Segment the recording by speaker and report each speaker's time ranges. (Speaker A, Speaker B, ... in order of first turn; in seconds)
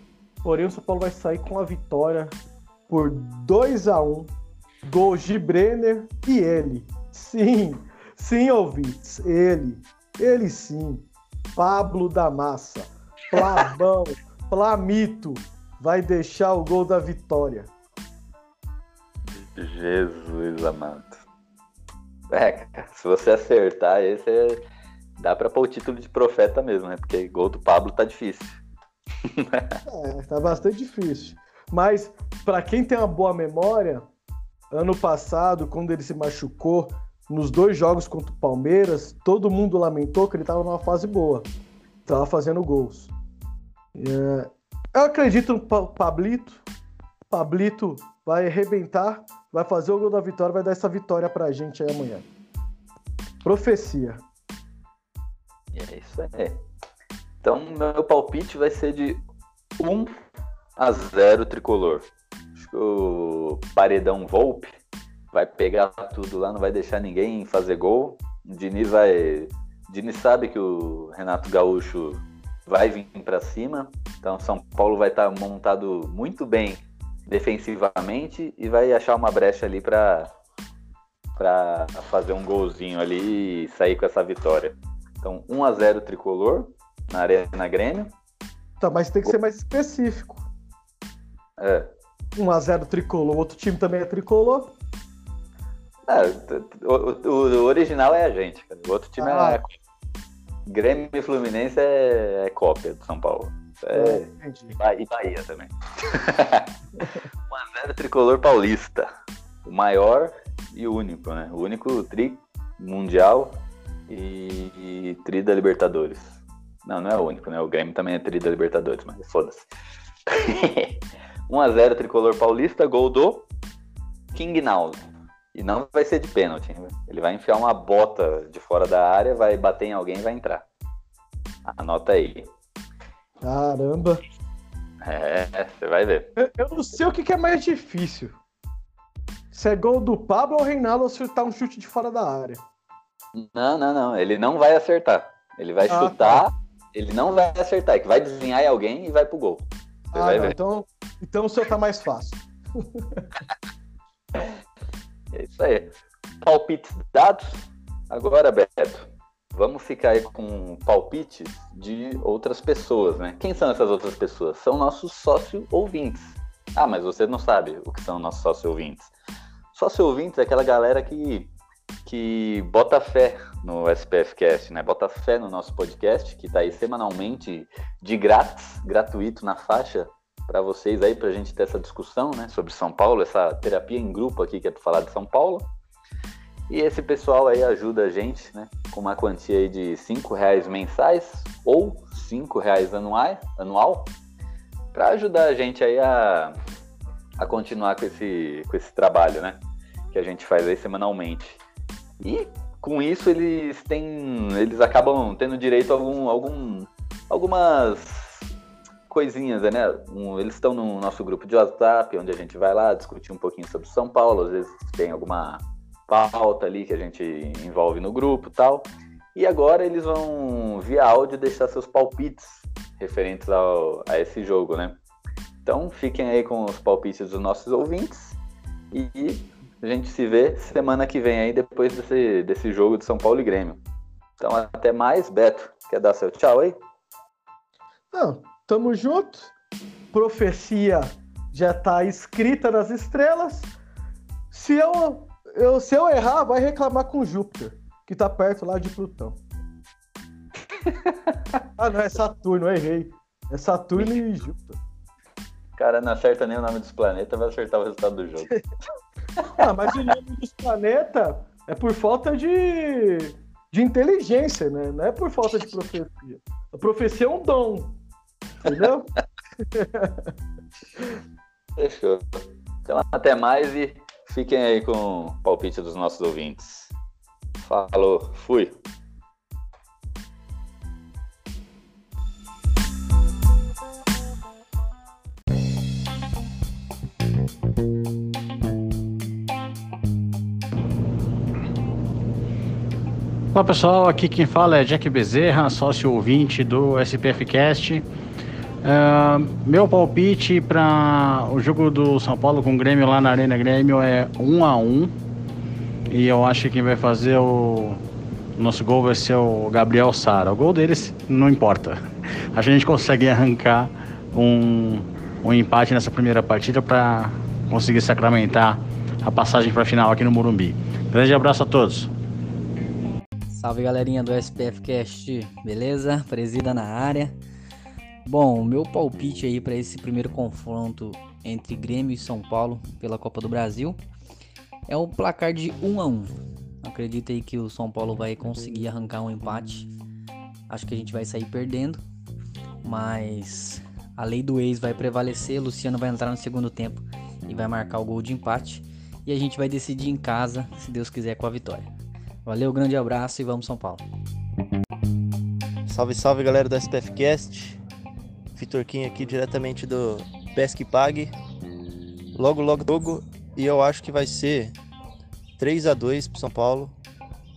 Speaker A: 0.4-2.4, 2.9-4.3, 4.8-17.7, 29.9-34.0, 34.7-41.5, 42.0-43.1, 44.0-46.7, 47.3-52.3, 53.4-54.2, 88.8-90.5, 92.4-94.7, 99.2-99.6, 103.9-104.8, 133.4-134.2, 136.4-138.4, 139.5-142.6, 145.9-146.4, 150.1-153.2, 238.1-239.5, 240.1-243.7, 244.5-249.4, 251.8-254.8, 259.6-268.0, 268.6-269.1, 269.8-270.3
Speaker B: 19.4-21.2, 22.3-24.6, 25.2-28.6, 29.4-29.8, 55.7-56.6, 57.4-59.2, 59.8-60.1, 60.8-64.7, 65.3-80.3, 81.4-88.1, 91.6-91.9, 96.1-99.7, 100.7-106.7, 107.5-109.1, 109.6-119.7, 120.3-123.5, 124.3-130.6, 131.7-132.5, 135.0-136.3, 143.3-150.5, 155.3-169.1, 169.7-171.5, 172.0-185.7, 186.7-194.1, 194.9-196.5, 197.4-199.6, 200.1-201.6, 202.2-208.5, 209.1-225.0, 225.7-228.4, 228.9-233.8, 234.4-236.8, 250.8-251.3, 255.8-258.5, 271.8-276.9, 277.6-278.8
Speaker C: 293.5-298.0, 298.8-305.1, 306.1-308.0, 308.6-311.9, 312.5-322.1
Speaker D: 323.5-327.3, 328.2-334.0, 334.9-339.9, 340.7-342.0, 342.8-351.9, 352.5-354.0
Speaker E: 355.9-357.8, 358.5-361.3, 362.3-364.8, 365.6-366.9